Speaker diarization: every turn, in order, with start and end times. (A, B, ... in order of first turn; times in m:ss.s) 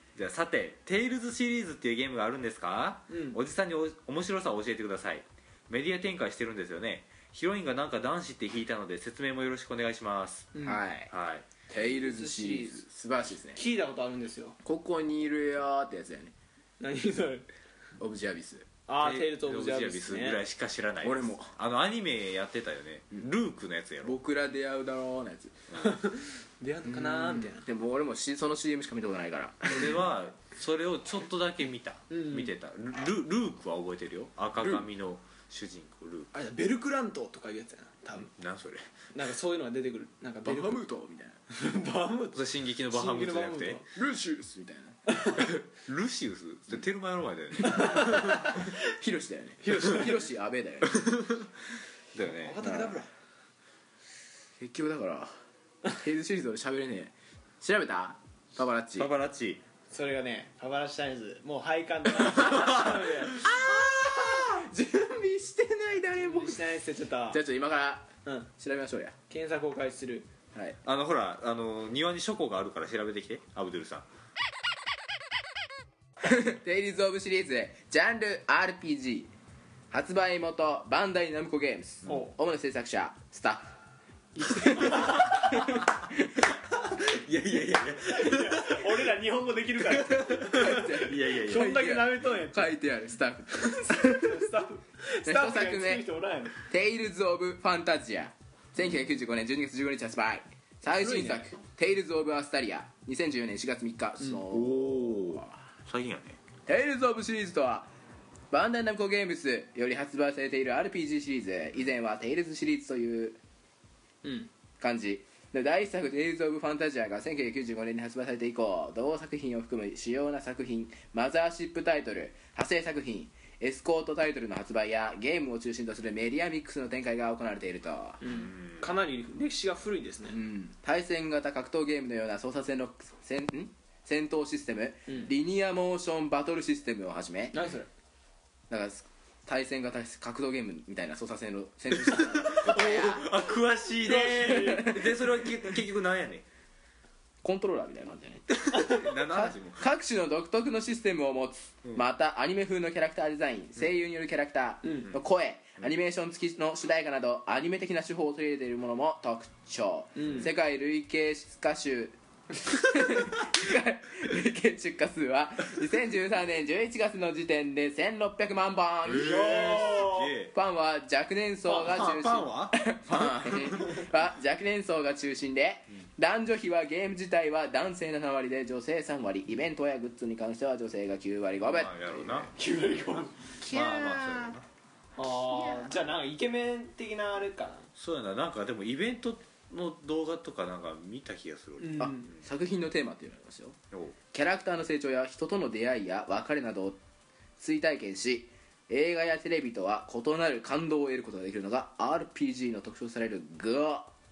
0:00.1-0:10.5 A
0:03.1-0:03.4 B
0:10.5-0:10.8 B
0:10.6-0:11.1 C
0:11.1-0:11.4 A
0:11.7-0:13.6 C
0:11.9-0:12.8 B
0:13.5-0:14.6 B
0:14.6-0:16.3 C
0:16.8-0:17.5 B
0:18.0-0:18.7 C
0:18.9-0:20.4 B
0:19.0-0:24.2 A
0:21.0-0:21.5 C
0:24.0-0:25.6 C
0:25.7-0:27.6 B
0:26.9-0:30.0 C
0:29.7-0:36.3 A
0:32.1-0:32.5 B
0:34.6-0:34.8 C
0:36.3-0:38.3 B
0:38.2-0:38.9 A
0:39.1-0:40.8 B
0:40.4-0:41.4 C
0:41.5-0:43.9 B
0:42.3-0:43.8 A
0:43.9-0:45.0 C
0:45.1-0:45.5 B
0:45.7-0:48.5 A
0:47.6-0:51.2 C
0:47.6-0:48.7 B
0:49.6-0:50.2 B
0:50.9-0:51.5 A
0:52.1-0:52.8 A
0:52.2-0:53.1 B
0:54.6-0:55.3 C
0:55.9-0:59.1 C
0:59.0-0:59.6 A
0:59.9-1:03.4 B
1:02.4-1:02.9 A
1:03.3-1:06.6 C
1:06.2-1:07.4 B
1:07.3-1:09.2 C
1:09.3-1:10.3 B
1:10.8-1:14.0 A
1:16.2-1:19.3 C
1:19.9-1:23.7 C
1:22.1-1:22.3 B
1:24.4-1:25.9 C
1:24.6-1:25.6 B
1:26.9-1:29.0 A
1:28.0-1:32.7 B
1:29.9-1:32.0 A
1:30.5-1:34.4 C
1:33.6-1:36.5 B
1:35.2-1:36.0 C
1:36.6-1:45.5 C
1:40.9-1:41.5 B
1:44.5-1:46.4 A
1:46.6-1:47.9 C
1:48.5-1:53.4 C
1:54.2-1:54.5 B
1:54.8-2:08.3 C
2:08.2-2:10.4 B
2:08.2-2:08.9 A
2:10.3-2:17.6 C
2:15.1-2:15.3 B
2:17.5-2:17.9 B
2:18.7-2:23.3 C
2:22.0-2:26.4 A
2:24.0-2:25.0 B
2:24.6-2:25.1 C
2:27.4-2:28.6 C
2:28.5-2:29.9 A
2:28.7-2:29.0 B
2:29.2-2:49.8 C
2:34.8-2:35.1 B
2:40.2-2:40.5 B
2:40.2-2:40.5 A
2:49.1-2:50.5 A
2:49.2-2:50.3 B
2:50.5-3:02.5 C
2:51.7-2:54.0 A
3:01.6-3:02.5 A
3:02.5-3:03.5 B
3:03.6-3:04.6 C
3:03.6-3:04.6 A
3:05.2-3:07.9 B
3:05.4-3:06.1 C
3:08.0-3:12.4 A
3:11.8-3:12.3 B
3:12.0-3:13.8 C
3:13.9-3:14.2 A
3:14.3-3:17.0 C
3:17.6-3:24.1 C